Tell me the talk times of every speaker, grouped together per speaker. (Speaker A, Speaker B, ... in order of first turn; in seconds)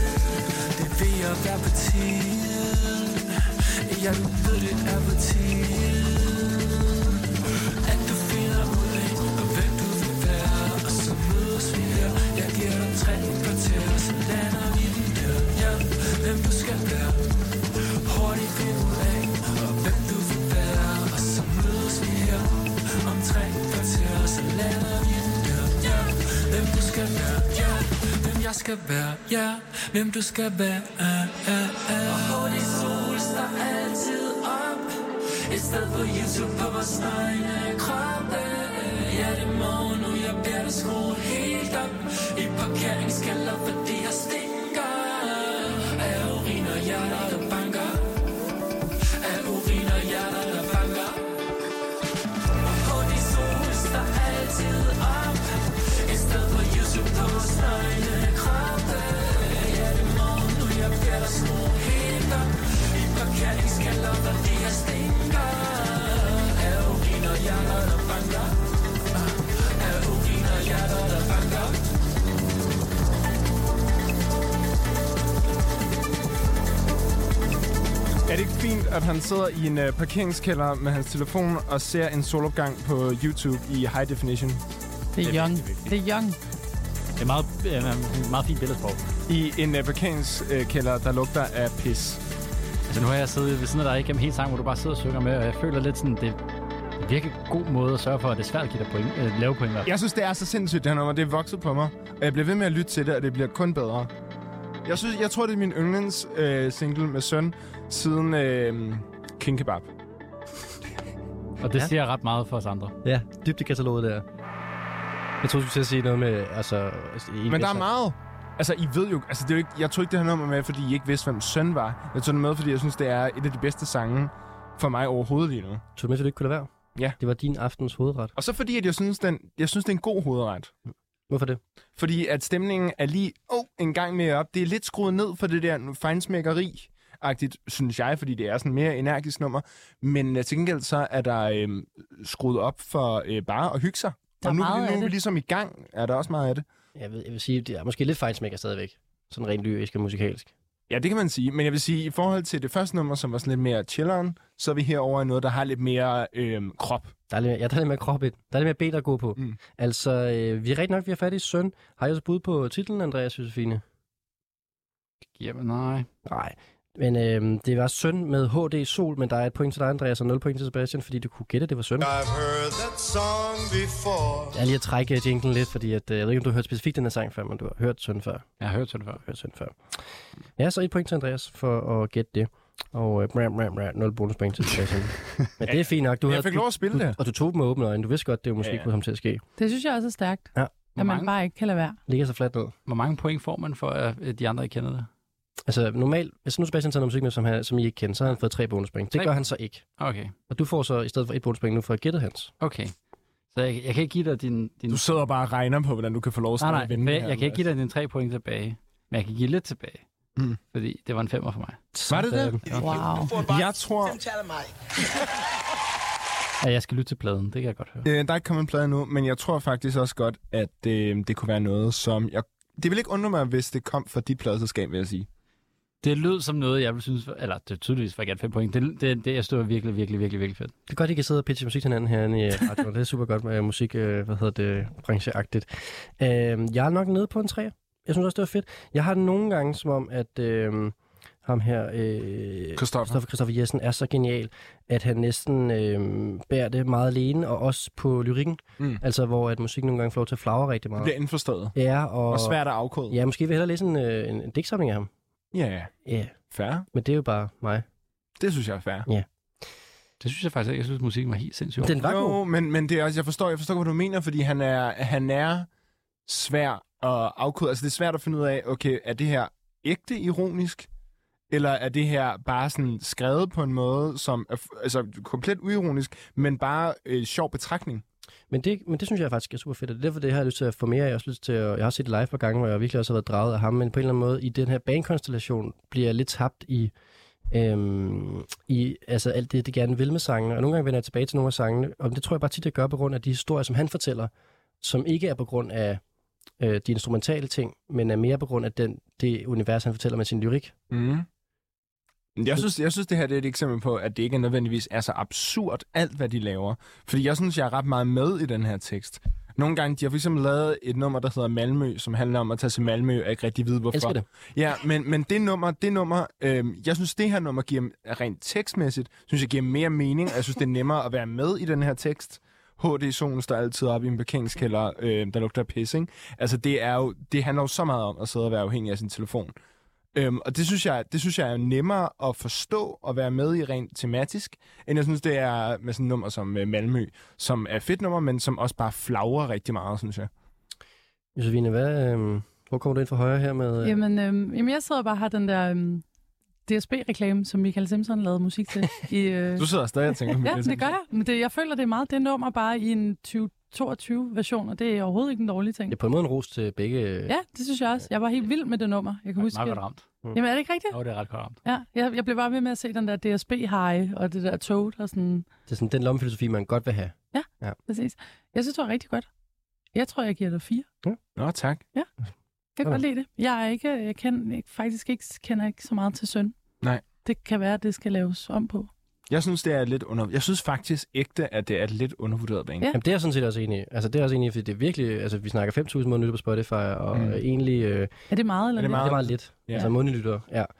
Speaker A: 0.7-48.1, 49.2-51.2, 52.6-68.6, 69.1-71.8
Speaker B: 78.3-84.6, 89.3-92.2, 99.8-104.1, 104.8-109.9, 117.5-125.8, 128.3-130.7, 132.0-146.6, 150.9-157.1, 185.7-187.2, 188.6-188.8, 204.9-207.6, 212.1-214.2, 218.0-225.3, 242.8-243.2, 251.0-251.7, 252.3-253.2, 255.5-255.9, 256.5-256.9, 258.4-259.1, 261.9-265.7, 266.2-270.9, 271.5-278.0, 300.9-301.2, 302.4-329.5, 330.1-340.3, 349.6-350.9, 371.4-371.8, 379.3-382.9, 387.1-387.4, 388.8-389.9
Speaker C: 85.2-86.4, 144.4-145.2, 189.6-192.0, 212.8-213.3, 343.8-346.0, 346.6-349.7, 350.4-355.9, 357.3-359.8, 360.3-360.9, 361.6-365.4, 367.3-369.3, 369.9-370.9, 372.8-376.6, 377.2-378.9, 388.3-389.9
Speaker D: 85.2-85.9, 87.2-89.0, 92.9-96.4, 97.0-99.9, 111.6-112.9, 165.3-166.1, 178.6-179.2, 191.0-191.3, 192.9-195.1, 199.1-199.4, 200.0-200.3, 202.6-202.9, 203.5-205.0, 206.6-210.0, 210.7-211.8, 216.6-218.1, 226.0-230.7, 260.2-261.9, 359.4-360.1, 360.9-361.6
Speaker E: 113.0-114.2, 115.4-117.8, 126.0-128.3, 131.3-131.6, 146.9-150.5, 157.3-163.8, 166.2-172.1, 174.5-178.5, 179.2-179.8, 180.6-189.4, 192.1-192.7, 195.7-199.8, 200.5-202.5, 211.9-212.6, 230.9-251.1, 251.8-252.6, 253.1-255.1, 256.0-256.4, 256.9-257.8, 261.8-262.4, 278.5-286.9, 287.5-296.0, 296.6-300.8, 313.9-314.2, 341.4-344.0, 355.9-357.3, 365.7-367.8, 382.9-388.1, 388.9-390.7
Speaker F: 172.0-174.6, 213.1-214.7